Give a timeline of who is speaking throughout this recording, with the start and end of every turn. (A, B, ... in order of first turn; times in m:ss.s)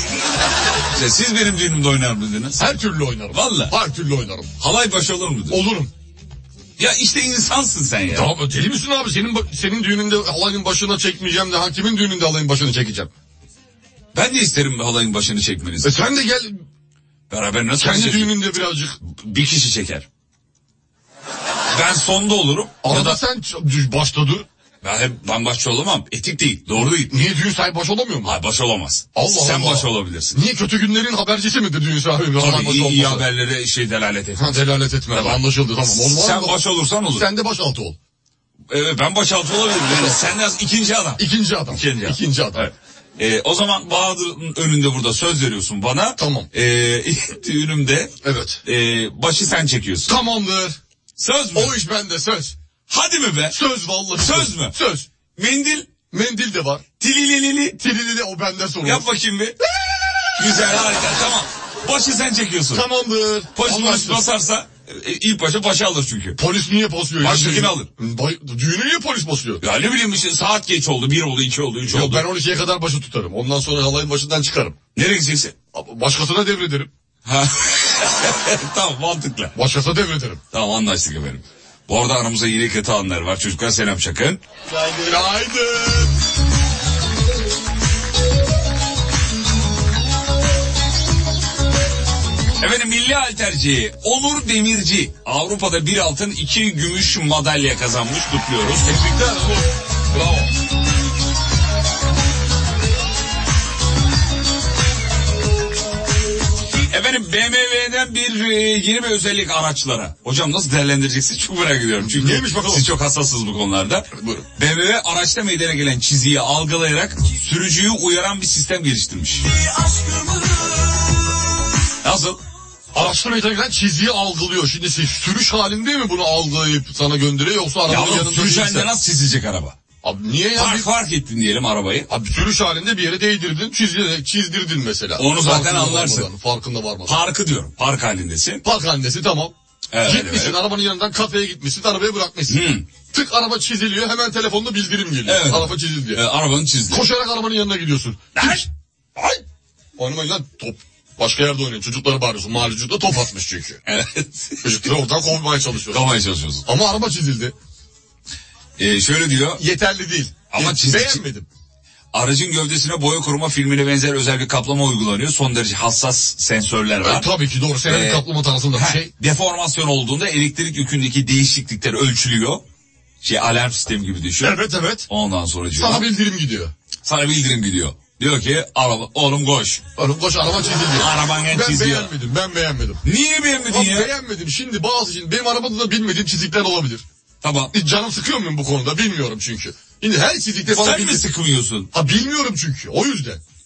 0:00.9-0:02.7 A
0:02.6-0:04.6 B
0:03.3-0:03.7 A
0:04.6-0:05.6 A
0:05.5-0:05.9 B
0:06.8-0:08.4 A
0:08.1-0:13.1 B
0:14.1-0:16.0 A
0:15.8-0:16.6 B
0:17.3-0:18.5 A
0:17.8-0:19.0 B
0:19.0-0:20.0 A
0:21.7-0:23.2 A
0:22.8-0:24.5 B
0:24.8-0:27.1 A
0:26.8-0:28.4 B
0:28.2-0:30.4 A
0:29.1-0:33.2 B
0:32.4-0:34.6 A
0:34.4-0:36.6 B
0:35.1-0:37.3 A
0:37.1-0:38.0 B
0:38.7-0:50.2 A
0:39.9-0:40.2 B
0:41.2-0:42.7 B
0:46.2-0:46.5 B
0:48.2-0:48.6 B
0:50.1-0:50.8 B
0:51.2-0:51.8 A
0:51.5-0:52.6 B
0:52.9-0:53.6 A
0:53.5-0:55.1 B
0:54.2-0:54.8 A
0:55.4-0:55.9 A
0:56.1-0:56.8 B
0:57.0-0:57.8 A
0:57.8-0:59.1 B
0:58.8-0:59.6 A
1:00.4-1:02.8 A
1:02.7-1:04.2 B
1:03.6-1:06.4 A
1:06.4-1:09.6 B
1:07.2-1:07.9 A
1:09.6-1:12.2 A
1:11.9-1:14.8 B
1:15.0-1:15.6 A
1:15.7-1:16.9 B
1:17.2-1:19.6 A
1:19.6-1:20.4 B
1:20.5-1:24.4 A
1:24.9-1:26.1 B
1:32.6-1:39.1 A
1:38.8-1:40.5 B
1:46.9-1:59.5 A
1:52.0-1:52.9 B
1:54.2-1:54.5 B
2:02.0-2:02.4 A
2:02.9-2:08.9 B
2:07.9-2:09.8 A
2:10.0-2:10.9 B
2:10.6-2:12.1 A
2:12.1-2:17.2 B
2:15.2-2:16.3 A
2:17.1-2:18.6 A
2:18.6-2:26.2 B
2:19.9-2:20.6 A
2:22.5-2:22.9 A
2:25.2-2:27.0 A
2:26.9-2:29.4 B
2:28.4-2:28.7 A
2:30.0-2:33.8 B
2:33.9-2:34.9 A
2:34.6-2:37.6 B
2:35.9-2:36.6 A
2:38.8-2:39.6 A
2:39.5-2:41.5 B
2:40.5-2:41.2 A
2:42.1-2:47.3 A
2:47.0-2:49.1 B
2:47.9-2:52.6 A
2:53.2-2:56.1 A
2:54.4-2:55.1 B
2:55.8-2:56.7 B
2:57.0-2:59.8 A
3:00.0-3:03.0 B
3:01.0-3:02.1 A
3:03.0-3:04.1 A
3:03.7-3:07.0 B
3:07.4-3:07.7 A
3:07.7-3:11.2 B
3:10.7-3:11.9 A
3:11.9-3:13.4 B